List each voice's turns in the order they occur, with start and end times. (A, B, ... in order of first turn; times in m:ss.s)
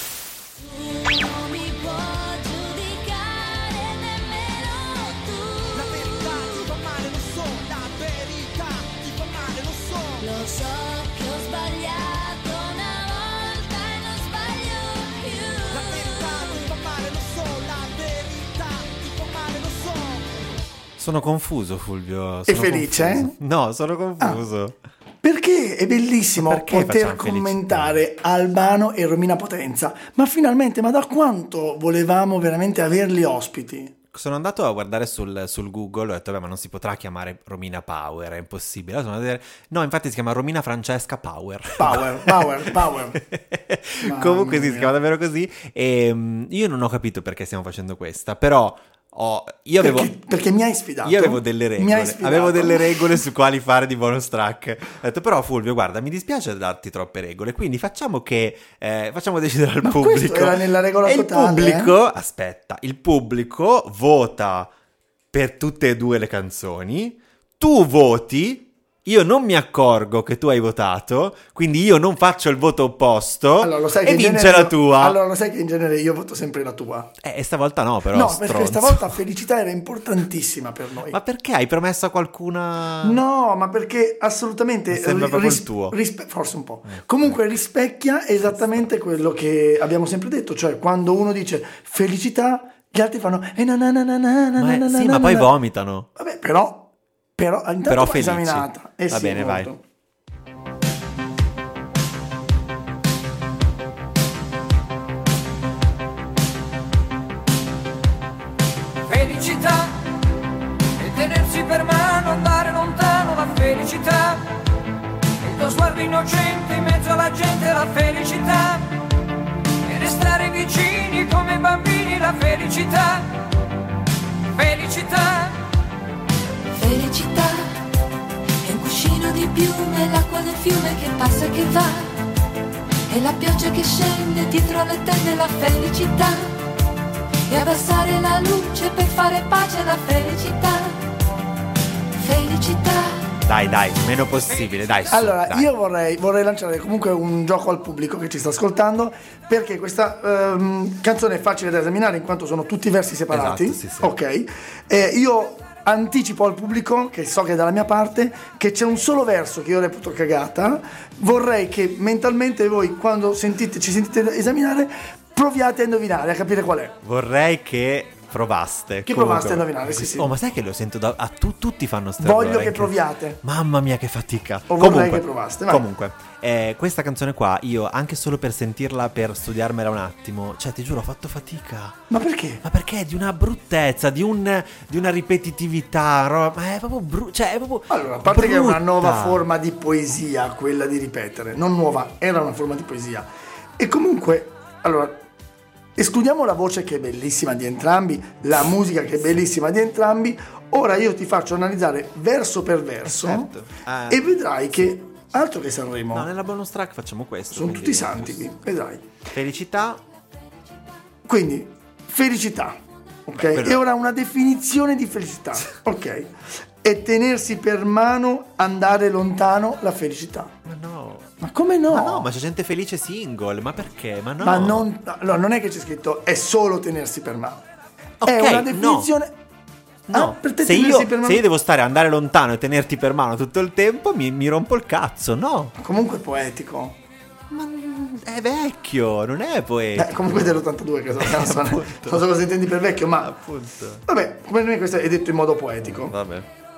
0:00.7-0:05.7 A
0:05.7-0:10.4 B
0:10.2-0:16.2 A
0:15.7-0:20.2 B
0:21.0-0:24.8 C
0:22.5-0:23.4 D
0:25.2-0:33.9 D
0:26.3-0:28.0 C
0:34.1-0:50.1 C
0:41.8-0:43.2 D
0:44.0-0:44.9 D
0:49.8-0:53.2 D
0:51.0-1:04.7 C
0:59.8-1:01.9 D
1:05.3-1:15.2 C
1:13.6-1:17.1 D
1:17.2-1:19.2 C
1:18.1-1:21.2 D
1:21.1-1:23.2 C
1:23.0-1:35.5 D
1:24.9-1:26.0 C
1:34.6-1:36.1 C
1:36.1-1:39.8 D
1:37.8-1:39.7 C
1:49.0-1:50.1 E
1:51.0-1:54.6 E
1:55.4-1:59.0 E
1:59.8-2:03.4 E
2:04.5-2:05.7 E
2:06.7-2:07.8 A
2:08.6-2:12.3 A
2:13.1-2:16.6 A
2:17.5-2:21.0 A
2:22.2-2:23.4 A
2:23.4-2:25.7 C
2:25.1-2:46.9 D
2:33.3-2:34.2 C
2:47.0-3:02.0 C
2:49.0-2:50.4 D
2:52.2-2:53.4 D
2:54.7-2:55.8 D
3:02.1-3:02.6 D
3:02.6-3:09.4 C
3:07.9-3:15.2 D
3:16.0-3:23.5 D
3:23.0-3:24.2 C
3:24.1-3:26.3 D
3:26.1-3:28.4 C
3:27.5-3:29.0 D
3:29.3-3:30.0 C
3:31.2-3:40.5 D
3:33.3-3:33.8 C
3:40.6-3:41.3 C
3:41.4-3:42.3 D
3:41.9-3:44.9 C
3:44.4-3:47.6 D
3:48.2-3:49.1 C
3:48.2-3:49.3 D
3:50.1-3:55.7 C
3:50.1-3:51.4 D
3:55.8-3:57.0 D
3:57.5-4:02.2 C
4:00.0-4:03.3 D
4:03.2-4:04.0 C
4:04.0-4:06.1 D
4:05.8-4:06.5 C